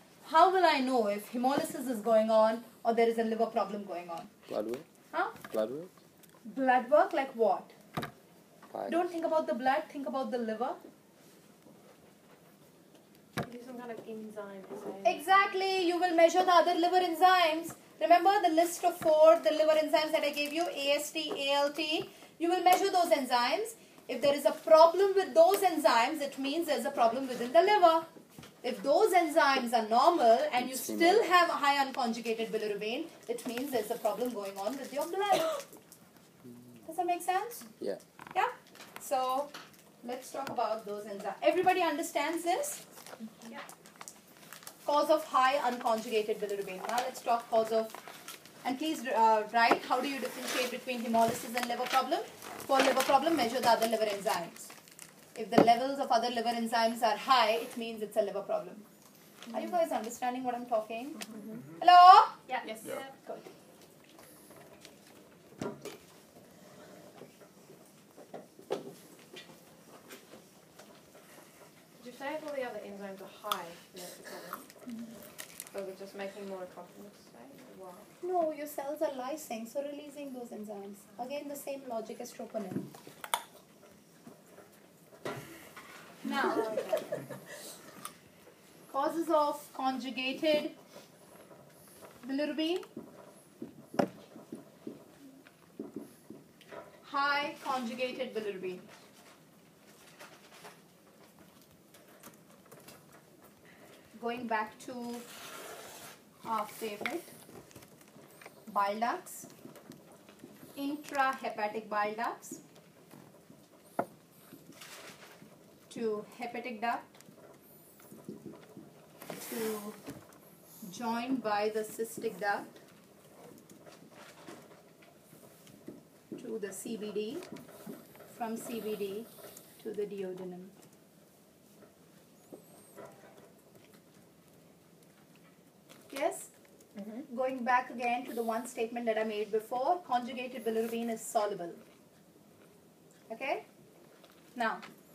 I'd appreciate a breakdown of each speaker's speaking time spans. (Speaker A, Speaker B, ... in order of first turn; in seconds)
Speaker A: 0.2-4.3, 6.5-7.7, 8.9-10.8, 15.0-28.0, 28.6-35.6, 36.8-37.7, 38.3-42.8, 44.8-48.0, 48.6-54.7, 55.3-58.8, 59.5-61.2, 61.8-62.4, 78.2-82.8, 86.2-86.9, 88.9-90.7, 92.2-92.9, 97.0-98.9, 104.1-105.2, 106.4-107.3, 108.7-109.5, 110.8-112.6, 115.9-117.0, 119.4-120.0, 120.8-122.8, 126.3-127.4, 128.3-129.3, 129.8-130.7, 136.1-136.5, 137.3-141.8, 143.3-143.6, 144.6-144.8
Speaker B: 4.5-4.8, 5.5-5.9, 8.7-9.0, 30.6-31.4
Speaker C: 13.4-15.6, 62.5-63.1, 72.0-74.7, 75.7-78.1, 86.5-87.0